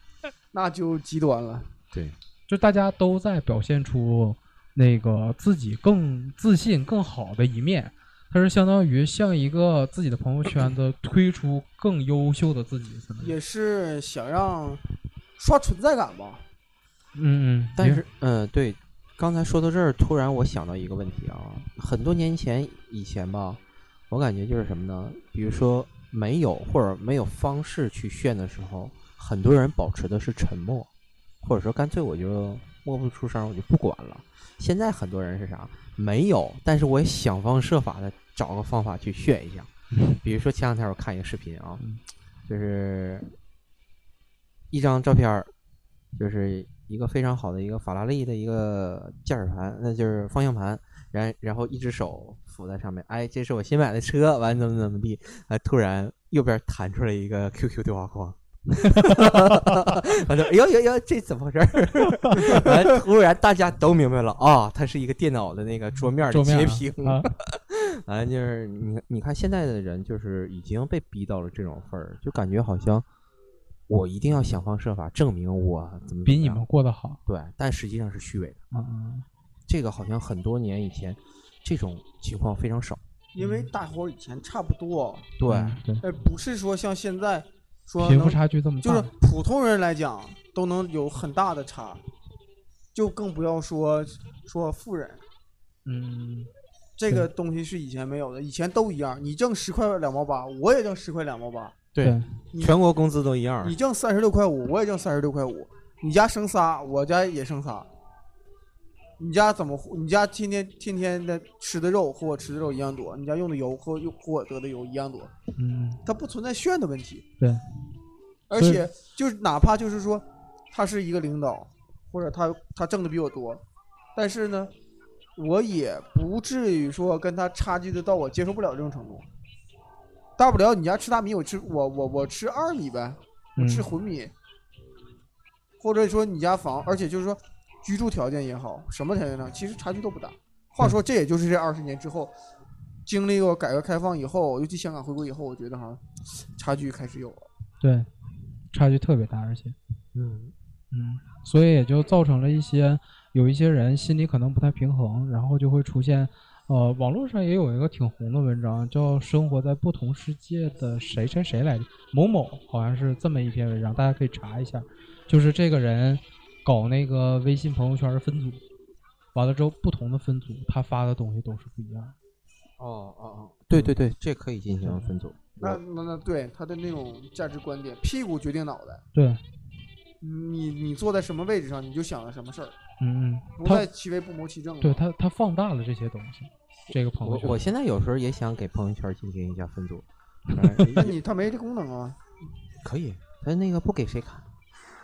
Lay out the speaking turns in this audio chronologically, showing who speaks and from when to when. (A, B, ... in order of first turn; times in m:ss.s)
0:00.5-0:01.7 A
0:02.5-0:13.3 B
0:13.2-0:14.8 A
0:15.4-0:16.4 A
0:17.1-0:18.0 B
0:17.8-0:30.9 C
0:31.4-0:39.7 C
0:39.9-0:40.2 B
0:40.2-0:41.8 C
0:42.4-0:43.3 C
0:44.7-0:45.5 C
0:46.1-1:13.0 C
0:58.9-0:59.8 B
1:02.2-1:02.6 B
1:06.3-1:07.3 B
1:13.9-1:16.6 C
1:16.2-1:17.2 B
1:17.2-1:18.6 C
1:18.7-1:19.2 B
1:19.7-1:23.0 C
1:23.3-1:25.3 A
1:23.4-1:23.7 B
1:25.4-1:25.8 C
1:25.4-1:26.0 B
1:26.0-1:32.0 A
1:28.0-1:29.1 B
1:32.9-1:35.2 A
1:35.8-1:36.5 B
1:37.0-1:41.8 A
1:41.9-1:43.7 C
1:42.0-1:42.3 B
1:42.5-1:42.8 A
1:43.6-1:47.9 A
1:49.2-1:55.3 A
1:55.6-1:56.0 B
1:56.0-1:57.2 A
1:58.5-2:03.6 A
1:58.5-1:58.8 B
2:04.1-2:04.7 A
2:05.4-2:09.3 A
2:10.4-2:14.3 A
2:13.6-2:13.9 B
2:15.8-2:22.3 A
2:23.0-2:26.0 A
2:26.6-2:27.5 A
2:27.8-2:28.1 B
2:28.7-2:29.8 B
2:30.1-2:30.5 C
2:30.9-2:48.6 B
2:49.3-2:52.1 B
2:52.8-2:55.8 C
2:54.8-2:55.1 B
2:55.6-2:59.0 A
2:59.1-2:59.4 B
3:00.2-3:02.8 A
3:03.0-3:03.8 B
3:03.6-3:05.0 A
3:04.8-3:07.6 B
3:07.2-3:11.2 C
3:10.5-3:10.8 B
3:10.9-3:12.2 A
3:12.8-3:14.5 C